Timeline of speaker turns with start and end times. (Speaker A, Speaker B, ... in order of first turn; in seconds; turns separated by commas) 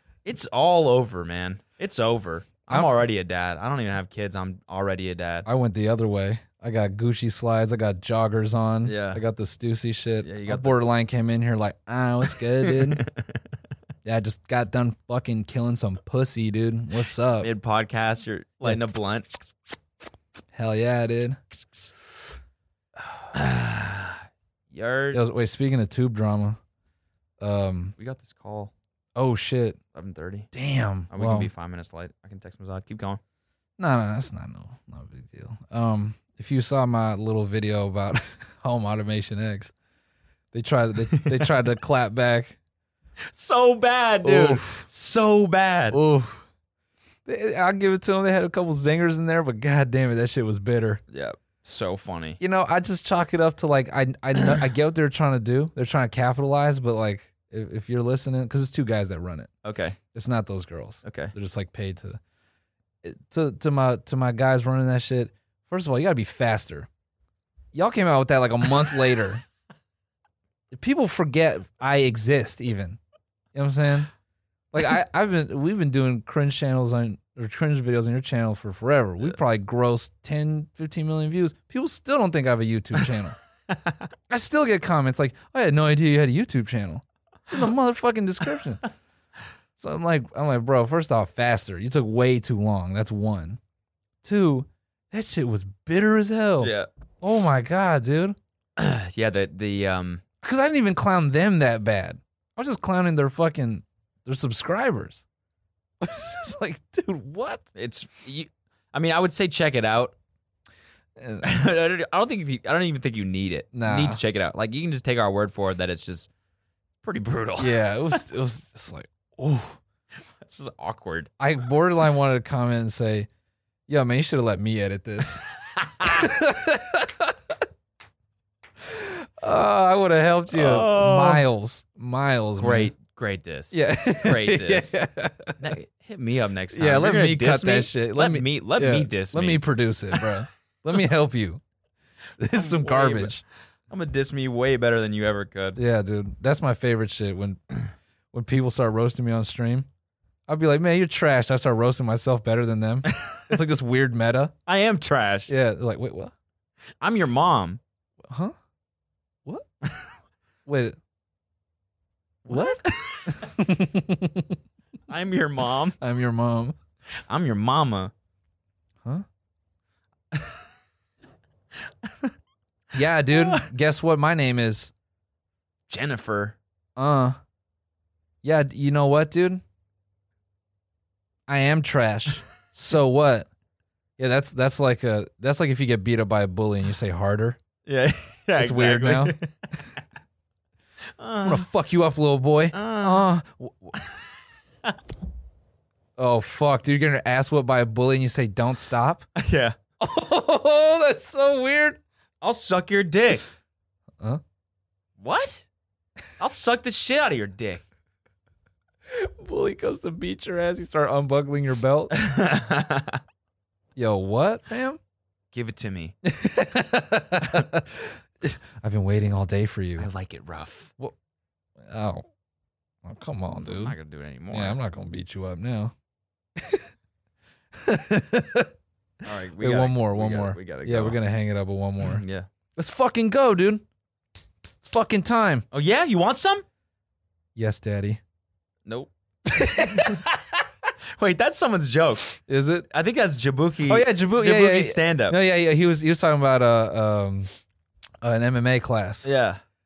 Speaker A: 0.2-5.5, Speaker B: 5.5-13.1, Speaker A: 8.8-9.2, Speaker A: 10.2-10.8, Speaker A: 12.6-13.4, Speaker B: 14.1-17.5, Speaker A: 17.4-19.3, Speaker B: 18.6-18.9, Speaker B: 20.5-21.4, Speaker A: 23.3-25.2, Speaker B: 25.1-26.6, Speaker B: 27.4-27.9, Speaker A: 28.0-28.7, Speaker B: 29.1-29.8, Speaker A: 29.9-30.5, Speaker B: 30.5-31.5, Speaker A: 31.1-33.2, Speaker B: 33.8-39.7, Speaker B: 40.5-42.6, Speaker A: 41.1-41.5, Speaker A: 43.3-46.0, Speaker B: 44.2-44.9, Speaker B: 45.9-46.5, Speaker B: 47.3-51.0, Speaker A: 51.1-52.4, Speaker B: 52.4-59.5, Speaker A: 59.6-60.0, Speaker B: 60.1-62.2, Speaker A: 61.0-61.3, Speaker B: 63.0-66.9, Speaker B: 67.7-69.4, Speaker B: 70.7-73.0, Speaker B: 73.5-74.1, Speaker B: 74.7-83.4, Speaker A: 83.7-84.0, Speaker B: 84.3-88.8, Speaker B: 89.8-93.6, Speaker B: 94.2-98.4, Speaker A: 96.6-96.9, Speaker A: 98.8-100.2, Speaker B: 100.4-105.2, Speaker B: 106.0-107.7, Speaker A: 107.8-110.2, Speaker B: 111.2-111.6, Speaker A: 111.4-116.3, Speaker B: 113.7-114.2, Speaker A: 117.0-118.2, Speaker B: 117.6-119.8, Speaker A: 120.4-121.3, Speaker B: 121.4-123.3, Speaker B: 123.9-125.4, Speaker A: 125.7-126.3, Speaker B: 126.0-127.6, Speaker B: 128.8-132.9, Speaker A: 130.5-131.4, Speaker A: 132.6-135.0, Speaker B: 133.7-135.6, Speaker A: 135.6-140.4, Speaker B: 136.7-141.6, Speaker B: 142.4-143.4, Speaker A: 142.5-143.4, Speaker A: 143.9-145.8, Speaker B: 145.8-147.6, Speaker B: 148.3-149.9, Speaker B: 150.5-154.5, Speaker A: 153.1-153.5, Speaker A: 154.7-155.5, Speaker B: 155.5-156.3, Speaker A: 157.0-157.8, Speaker B: 158.2-158.5, Speaker B: 160.7-161.0, Speaker A: 162.4-163.5, Speaker B: 162.5-164.6, Speaker A: 165.1-166.0, Speaker B: 166.0-166.8, Speaker A: 167.3-168.1, Speaker A: 172.0-172.3, Speaker B: 172.9-174.9, Speaker A: 173.3-173.7, Speaker A: 175.9-176.6, Speaker B: 177.0-177.4, Speaker B: 178.4-179.6, Speaker B: 181.5-183.5, Speaker B: 184.2-187.6, Speaker A: 187.9-190.0, Speaker B: 188.6-189.4, Speaker A: 191.2-191.7, Speaker B: 191.4-194.0, Speaker A: 192.7-193.3, Speaker B: 196.2-199.3, Speaker A: 199.4-199.8, Speaker B: 200.0-202.0, Speaker A: 202.4-203.5, Speaker A: 205.2-205.7, Speaker A: 206.4-207.8, Speaker B: 209.1-212.1, Speaker A: 212.1-213.2, Speaker B: 214.0-215.0, Speaker A: 215.5-216.2, Speaker B: 216.2-220.1, Speaker A: 220.0-220.9, Speaker B: 221.8-222.3, Speaker B: 223.0-223.9, Speaker A: 223.6-224.8, Speaker B: 224.5-225.9, Speaker B: 226.6-226.9, Speaker B: 227.7-228.7, Speaker A: 229.2-231.2, Speaker B: 229.6-232.2, Speaker A: 232.0-232.5, Speaker B: 232.8-233.8, Speaker B: 234.8-235.7, Speaker A: 235.7-236.6, Speaker B: 237.6-238.2, Speaker A: 238.9-240.2, Speaker B: 239.5-240.4, Speaker A: 241.2-242.3, Speaker B: 242.5-242.9, Speaker A: 242.9-245.4, Speaker B: 243.9-247.5, Speaker B: 248.2-249.3, Speaker A: 249.2-249.6